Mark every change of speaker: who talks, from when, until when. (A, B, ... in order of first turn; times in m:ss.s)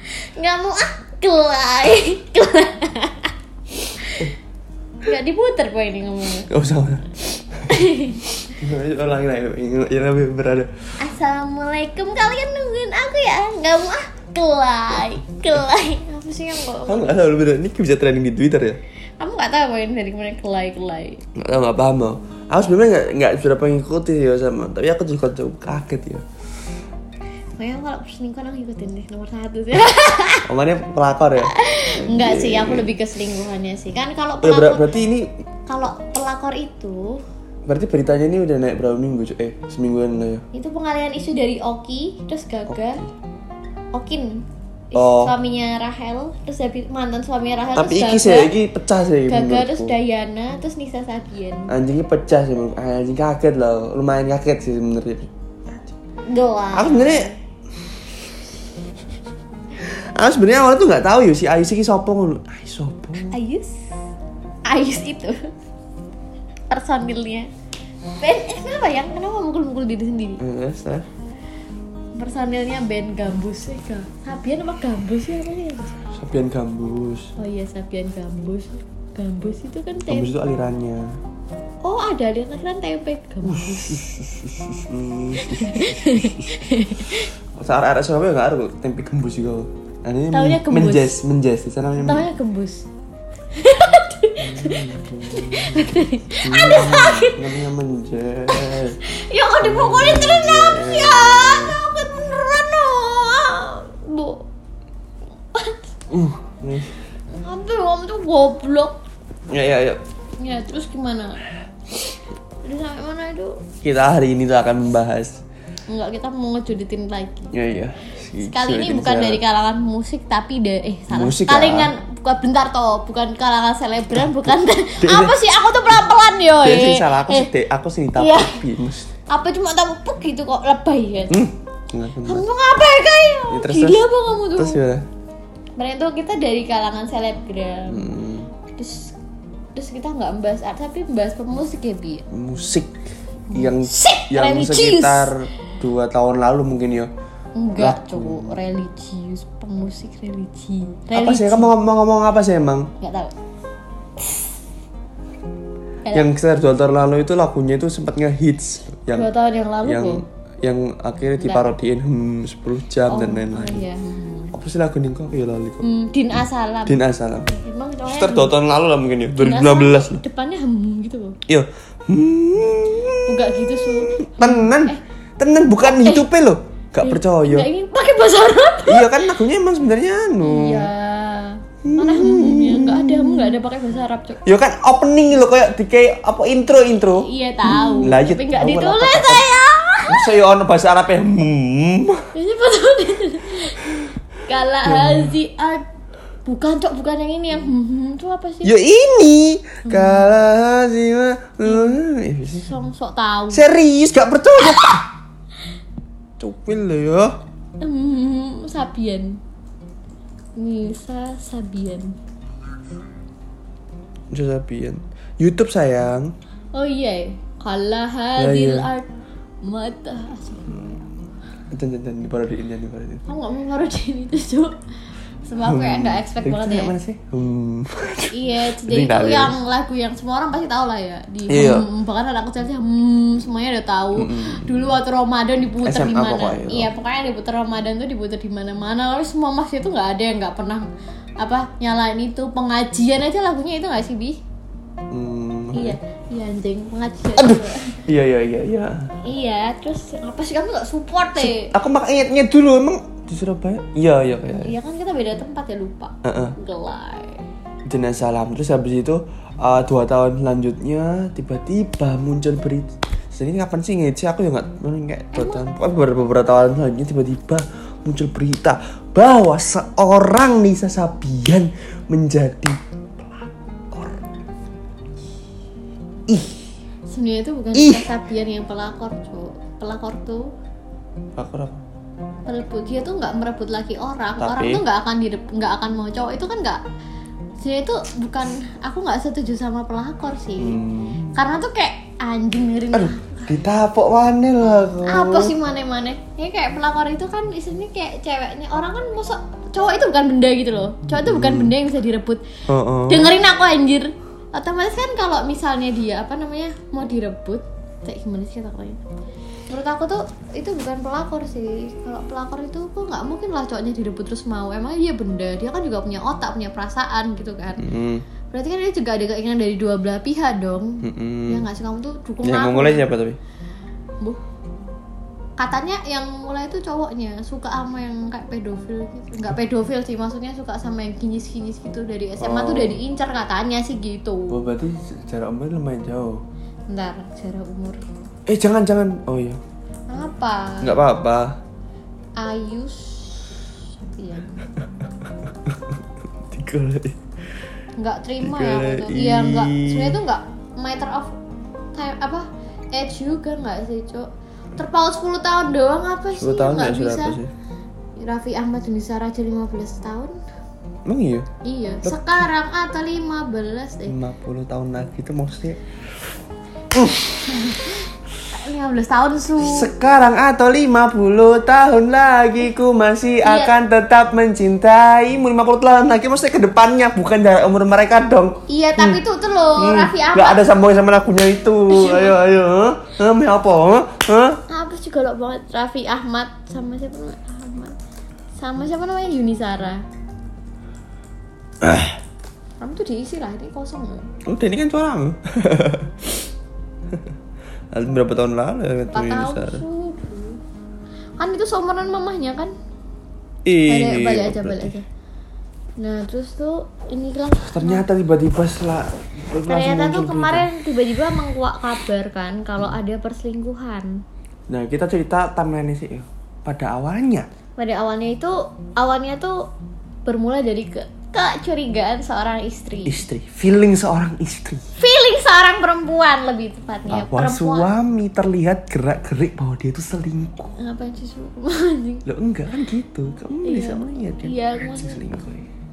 0:00.4-0:03.3 A
0:04.0-0:04.3 A
0:05.0-0:06.5 A
0:06.5-0:07.8 B
0:07.7-0:08.2 A
0:08.5-0:10.7 B
0:11.0-0:17.2 A
0:16.9-0:18.8 B
0:19.2-0:21.2 A
0:21.4-0:26.2 B
0:27.6-0:30.5 A
0:30.5-0:32.9 B
0:31.4-0:34.8 A
0:34.4-0:35.3 B
0:35.7-0:37.2 A
0:37.7-0:40.4 B
0:40.5-0:43.0 A
0:42.7-0:43.1 B
0:43.9-0:48.5 A
0:44.9-0:45.3 B
0:47.8-0:50.0 B
0:49.3-0:51.7 A
0:51.7-0:55.9 B
0:56.3-0:57.4 A
0:56.7-0:57.3 B
0:59.8-1:03.4 B
1:03.3-1:03.7 A
1:04.7-1:05.5 A
1:06.7-1:07.5 A
1:08.2-1:10.4 A
1:10.4-1:11.1 B
1:12.2-1:16.0 A
1:16.1-1:17.3 B
1:17.4-1:20.3 A
1:20.1-1:21.1 B
1:21.8-1:24.1 A
1:23.4-1:32.3 B
1:25.4-1:27.3 A
1:30.3-1:31.2 A
1:32.0-1:32.8 A
1:33.6-1:37.4 A
1:34.4-1:39.0 B
1:38.6-1:44.4 A
1:39.6-1:41.8 B
1:45.5-1:45.8 A
1:46.1-1:46.9 B
1:47.3-1:49.0 A
1:49.5-1:50.0 B
1:50.4-1:51.4 A
1:52.6-1:53.6 A
1:53.8-1:55.4 B
1:55.9-1:57.5 A
1:57.5-1:59.4 B
1:58.4-2:07.5 A
2:01.1-2:01.9 B
2:04.2-2:05.4 B
2:06.6-2:09.1 B
2:08.2-2:08.6 A
2:09.3-2:11.4 A
2:11.3-2:12.4 B
2:12.2-2:14.8 A
2:13.5-2:14.0 B
2:14.6-2:15.1 B
2:15.8-2:18.1 A
2:17.9-2:18.5 B
2:18.7-2:19.2 A
2:19.8-2:22.2 A
2:22.3-2:23.0 B
2:23.5-2:25.3 A
2:23.5-2:27.1 B
2:27.6-2:31.7 A
2:27.8-2:28.6 B
2:31.1-2:32.9 B
2:33.0-2:33.3 A
2:36.0-2:36.3 A
2:36.1-2:39.3 B
2:39.1-2:40.2 A
2:39.8-2:43.8 B
2:41.4-2:41.7 A
2:43.1-2:44.6 A
2:44.5-2:45.9 B
2:45.8-2:48.6 A
2:46.9-2:47.5 B
2:48.1-2:50.2 B
2:49.3-2:51.4 A
2:51.5-2:57.7 B
2:53.3-2:55.0 A
2:55.8-2:56.2 A
2:57.0-2:59.4 A
2:58.9-3:00.9 B
3:00.4-3:04.4 A
3:01.8-3:03.5 B
3:04.4-3:09.4 B
3:07.2-3:10.3 A
3:10.1-3:12.3 B
3:12.3-3:15.9 A
3:14.9-3:15.3 B
3:16.4-3:18.8 A
3:18.6-3:22.7 B
3:19.9-3:20.2 A
3:21.6-3:22.0 A
3:22.5-3:23.6 A
3:23.5-3:25.1 B
3:26.4-3:27.4 B
3:27.8-3:29.4 A
3:30.6-3:32.2 A
3:34.3-3:36.3 B
3:36.7-3:39.1 A
3:38.4-3:38.9 B
3:39.6-3:41.0 A
3:41.7-3:43.2 B
3:43.3-3:44.8 A
3:45.5-3:46.9 A
3:45.6-3:49.6 B
3:48.3-4:00.9 A
3:51.5-3:51.9 B
3:54.2-3:54.9 B
3:55.8-3:56.9 B
4:01.4-4:04.4 A
4:05.1-4:06.0 B
4:05.7-4:08.0 A
4:07.4-4:09.2 B
4:09.2-4:11.7 A
4:11.4-4:14.8 B
4:14.6-4:17.4 A
4:16.2-4:16.6 B
4:17.8-4:34.2 B
4:25.3-4:25.6 A
4:36.3-4:36.7 B
4:37.1-4:40.5 A
4:37.7-4:38.1 B
4:41.4-4:41.8 B
4:42.5-4:46.8 A
4:44.4-4:44.8 B
4:47.6-4:50.8 A
4:50.6-4:51.4 B
4:51.3-4:53.5 A
4:52.9-4:55.6 B
4:55.1-5:02.4 A
5:01.1-5:01.7 B
5:02.7-5:03.4 B
5:03.1-5:09.0 A
5:09.7-5:17.9 A
5:17.8-5:18.2 B
5:18.5-5:23.1 A
5:21.0-5:21.7 B
5:22.4-5:23.4 B
5:25.6-5:34.6 A
5:32.4-5:33.0 B
5:34.5-5:36.4 B
5:36.9-5:38.1 A
5:38.5-5:39.6 B
5:40.1-5:41.0 A
5:40.8-5:41.6 B
5:42.4-5:44.7 A
5:45.4-5:47.2 B
5:48.0-5:51.3 A
5:48.4-5:50.2 B
5:52.0-5:57.4 A
5:56.3-5:57.5 B
5:58.2-6:00.4 A
6:01.0-6:01.5 B
6:01.6-6:04.2 A
6:02.0-6:02.4 B
6:04.1-6:05.8 B
6:06.9-6:07.8 B
6:08.5-6:09.9 A
6:09.6-6:19.2 B
6:13.4-6:13.7 A
6:18.7-6:20.6 A
6:19.8-6:24.6 B
6:21.9-6:22.4 A
6:24.7-6:28.0 A
6:28.6-6:30.0 A
6:31.8-6:32.2 B
6:32.8-6:34.3 A
6:34.4-6:36.5 B
6:37.9-6:39.8 B
6:39.1-6:40.6 A
6:41.4-6:42.7 A
6:43.6-6:45.0 B
6:43.9-6:45.1 A
6:46.0-6:48.0 A
6:47.6-6:50.7 B
6:49.7-6:54.2 A
6:54.7-6:57.5 B
6:57.8-6:59.6 A
7:00.3-7:03.2 A
7:03.1-7:04.8 B
7:05.0-7:07.9 A
7:07.1-7:10.7 B
7:10.8-7:12.2 A
7:12.2-7:15.7 B
7:13.6-7:15.2 A